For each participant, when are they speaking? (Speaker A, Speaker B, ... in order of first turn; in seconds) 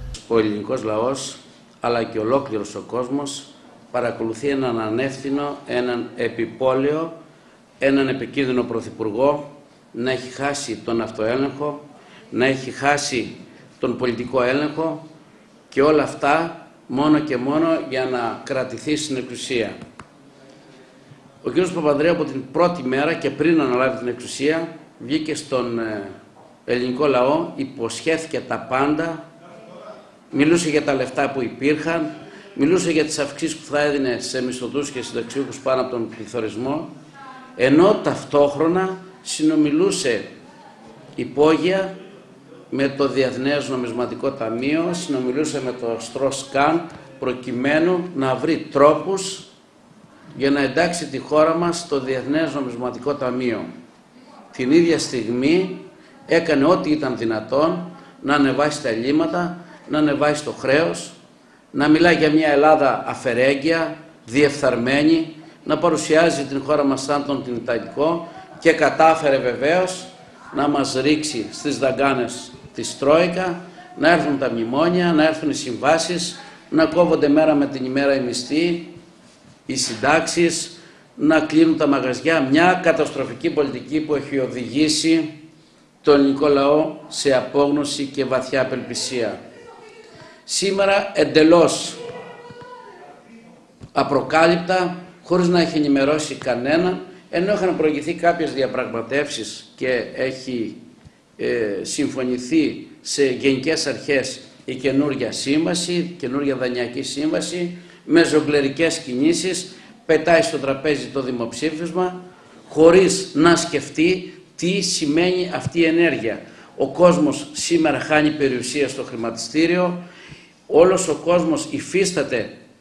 Speaker A: 0.3-7.1, 7.8-15.0, 15.7-19.8, 21.4-26.1, 26.6-29.2, 30.3-36.9, 37.6-40.2, 41.1-41.9, 42.7-49.5, 50.3-53.7, 54.5-61.1, 61.7-78.9, 79.7-85.4, 86.0-89.4, 90.5-92.0, 93.9-100.8, 101.4-120.0, 120.7-122.5